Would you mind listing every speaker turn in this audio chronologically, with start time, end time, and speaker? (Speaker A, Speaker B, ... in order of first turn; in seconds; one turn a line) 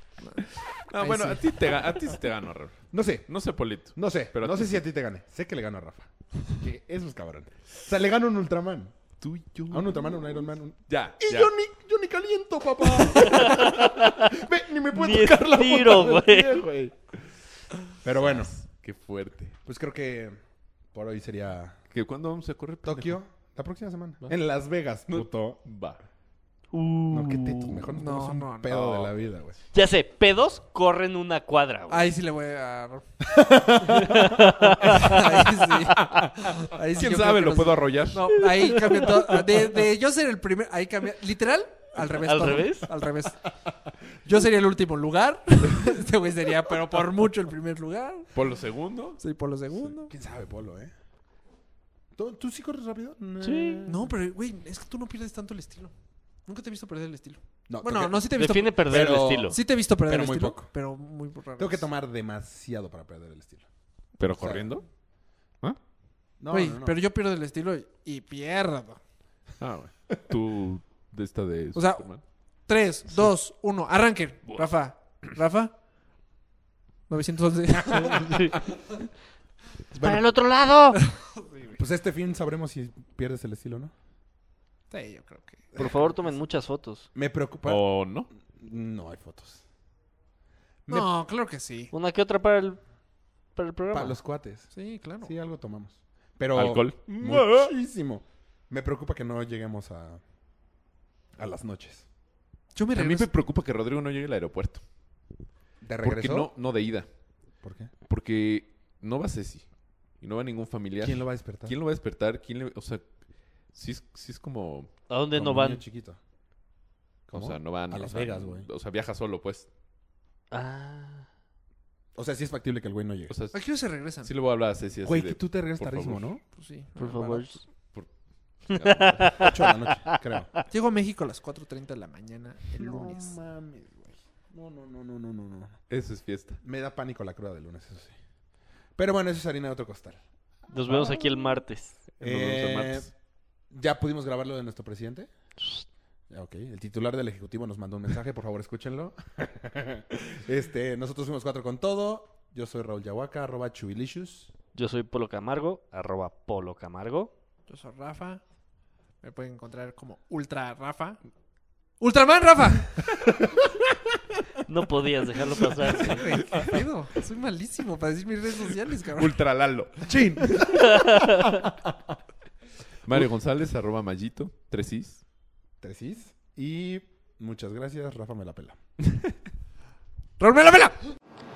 Speaker A: 0.2-1.5
Speaker B: 0.9-4.8
Speaker C: 2.9-3.3
Speaker C: 3.9-8.9
Speaker B: 9.2-10.3
Speaker C: 9.7-16.9
Speaker B: 10.9-11.5
Speaker D: 13.2-14.3
Speaker D: 14.9-16.6
Speaker C: 18.0-18.5
Speaker B: 18.2-19.6
Speaker C: 19.6-20.4
Speaker C: 20.9-21.8
Speaker B: 21.9-23.1
Speaker C: 22.8-25.6
Speaker B: 25.1-26.0
Speaker D: 26.7-27.9
Speaker C: 27.1-29.6
Speaker A: 27.9-28.7
Speaker B: 28.7-29.1
Speaker D: 29.7-32.1
Speaker A: 31.9-33.0
Speaker C: 33.2-34.6
Speaker D: 33.9-35.3
Speaker A: 34.8-43.4
Speaker B: 36.0-38.4
Speaker D: 38.5-39.1
Speaker D: 42.1-43.0
Speaker A: 44.2-48.3
Speaker B: 48.3-49.2
Speaker A: 49.2-50.1
Speaker C: 49.8-50.9
Speaker C: 52.1-54.1
Speaker D: 53.4-53.8
Speaker A: 53.9-55.9
Speaker A: 56.5-61.9
Speaker C: 57.7-58.3
Speaker D: 58.3-59.6
Speaker C: 58.8-60.7
Speaker C: 61.6-63.6
Speaker B: 64.2-64.8
Speaker C: 64.4-64.7
Speaker C: 66.4-67.0
Speaker A: 66.5-69.0
Speaker B: 69.6-72.2
Speaker A: 71.7-72.1
Speaker A: 72.7-75.7
Speaker A: 77.1-78.3
Speaker D: 77.9-78.6
Speaker D: 79.9-81.0
Speaker C: 79.9-80.2
Speaker A: 80.9-81.8
Speaker C: 81.7-83.9
Speaker A: 84.9-85.6
Speaker C: 85.7-86.2
Speaker D: 85.8-87.1
Speaker C: 87.1-87.8
Speaker B: 87.6-88.3
Speaker C: 88.5-89.6
Speaker C: 90.8-91.1
Speaker A: 90.9-91.9
Speaker D: 91.9-92.8
Speaker D: 93.5-94.2
Speaker C: 93.9-94.7
Speaker A: 94.7-95.3
Speaker C: 95.2-100.2
Speaker B: 96.5-97.7
Speaker C: 101.4-102.0
Speaker A: 102.7-103.3
Speaker B: 102.9-104.8
Speaker C: 105.8-106.5
Speaker B: 106.0-107.1
Speaker C: 107.6-107.9
Speaker B: 108.1-109.6
Speaker B: 110.2-113.0
Speaker C: 111.0-111.7
Speaker B: 113.7-114.9
Speaker D: 115.1-115.8
Speaker C: 115.3-116.2
Speaker C: 117.3-118.7
Speaker B: 117.3-119.7
Speaker D: 120.5-121.2
Speaker C: 122.1-123.3
Speaker B: 123.3-123.6
Speaker A: 123.5-124.3
Speaker B: 124.1-126.2
Speaker C: 125.0-126.4
Speaker A: 126.5-127.4
Speaker D: 127.0-127.6
Speaker B: 127.9-129.5
Speaker D: 128.7-130.1
Speaker C: 129.4-130.5
Speaker A: 130.7-133.2
Speaker C: 132.7-135.8
Speaker B: 135.9-136.6
Speaker C: 136.6-138.1
Speaker C: 139.0-140.2
Speaker D: 140.7-142.0
Speaker C: 140.9-141.3
Speaker B: 142.2-143.1
Speaker C: 142.2-143.1
Speaker C: 143.7-145.3
Speaker C: 146.3-154.5
Speaker D: 154.7-157.3
Speaker A: 157.7-158.4
Speaker A: 159.2-161.2
Speaker A: 162.0-162.9
Speaker D: 164.7-166.4
Speaker C: 166.0-166.7
Speaker A: 166.6-169.3
Speaker B: 169.1-170.6
Speaker C: 170.0-171.9
Speaker D: 170.9-171.5
Speaker B: 173.1-175.2
Speaker C: 175.8-178.8
Speaker A: 180.4-180.9